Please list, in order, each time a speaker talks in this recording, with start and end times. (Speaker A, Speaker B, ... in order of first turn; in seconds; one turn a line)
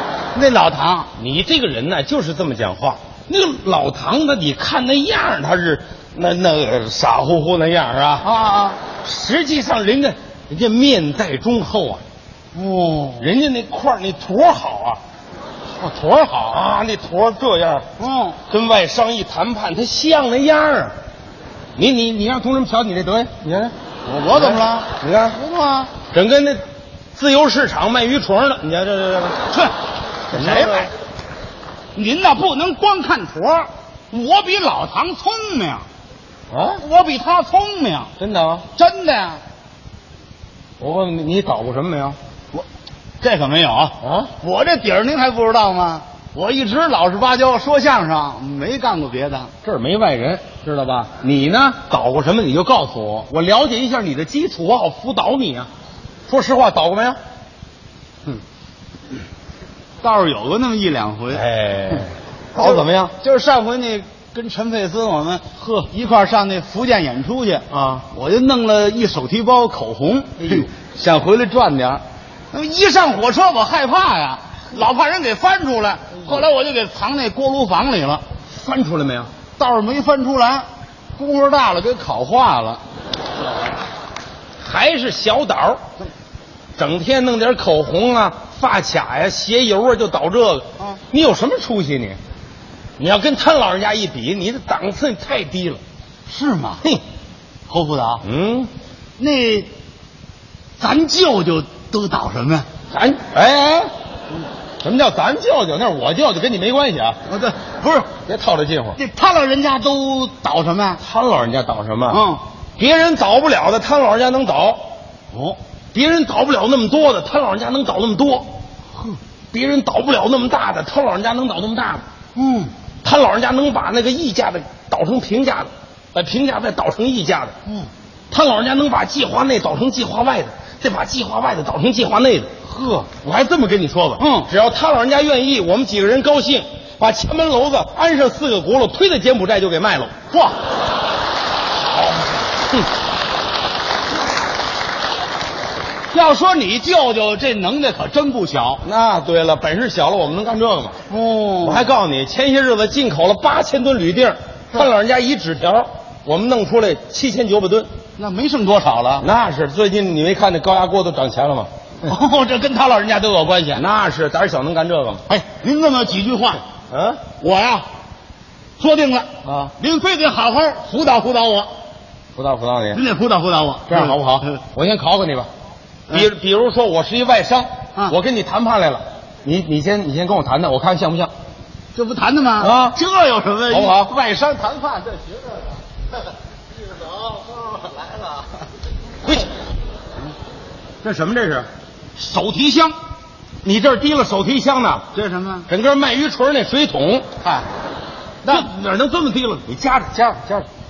Speaker A: 0.3-1.1
Speaker B: 1.2-8.2
Speaker A: 8.2-8.8
Speaker B: 9.0-12.0
Speaker A: 12.5-13.3
Speaker B: 13.2-15.0
Speaker A: 15.8-16.6
Speaker B: 16.5-17.9
Speaker A: 18.0-18.4
Speaker B: 18.5-20.9
Speaker B: 21.8-23.7
Speaker A: 24.1-25.9
Speaker B: 24.3-25.4
Speaker B: 26.1-26.6
Speaker B: 27.1-29.4
Speaker A: 30.3-30.9
Speaker B: 30.3-30.9
Speaker A: 31.9-35.9
Speaker B: 36.5-36.8
Speaker A: 36.8-38.1
Speaker B: 38.2-38.6
Speaker A: 38.7-39.4
Speaker B: 40.8-42.2
Speaker A: 43.2-49.5
Speaker B: 44.0-44.3
Speaker B: 49.6-55.7
Speaker B: 56.3-57.2
Speaker A: 60.0-61.4
Speaker B: 61.3-63.1
Speaker A: 62.6-78.2
Speaker B: 67.7-68.0
Speaker B: 70.4-70.7
Speaker B: 78.5-79.3
Speaker A: 79.5-82.8
Speaker B: 84.6-85.8
Speaker B: 86.8-92.2
Speaker B: 93.0-95.8
Speaker A: 96.3-96.8
Speaker A: 97.7-98.2
Speaker B: 98.2-98.7
Speaker A: 99.2-99.7
Speaker A: 100.8-102.7
Speaker B: 102.9-103.9
Speaker B: 104.8-107.2
Speaker A: 107.3-108.1
Speaker B: 108.2-109.0
Speaker A: 109.0-111.0
Speaker B: 111.0-112.2
Speaker A: 112.1-112.4
Speaker B: 112.8-114.8
Speaker A: 115.3-115.6
Speaker B: 115.9-118.5
Speaker B: 119.5-122.0
Speaker A: 122.3-122.7
Speaker B: 123.0-127.5
Speaker B: 128.3-132.5
Speaker A: 132.7-133.1
Speaker B: 133.2-140.1
Speaker A: 134.2-134.5
Speaker A: 140.3-140.6
Speaker A: 146.1-148.8
Speaker B: 148.8-151.0
Speaker A: 151.1-151.9
Speaker B: 151.6-157.9
Speaker A: 158.2-159.3
Speaker B: 159.2-161.7
Speaker A: 162.0-163.8
Speaker B: 163.8-165.2
Speaker A: 165.3-166.6
Speaker B: 166.9-167.2
Speaker A: 167.4-167.9
Speaker A: 168.8-171.7
Speaker B: 169.4-169.7
Speaker B: 172.4-173.0
Speaker A: 172.9-174.6
Speaker B: 173.9-175.5
Speaker B: 176.1-181.3
Speaker A: 181.9-185.3
Speaker B: 182.6-183.0
Speaker B: 183.7-184.1
Speaker B: 191.0-191.7
Speaker A: 192.2-192.9
Speaker B: 193.6-195.1
Speaker A: 195.1-195.7
Speaker B: 195.7-197.3
Speaker A: 197.4-197.7
Speaker B: 198.4-200.7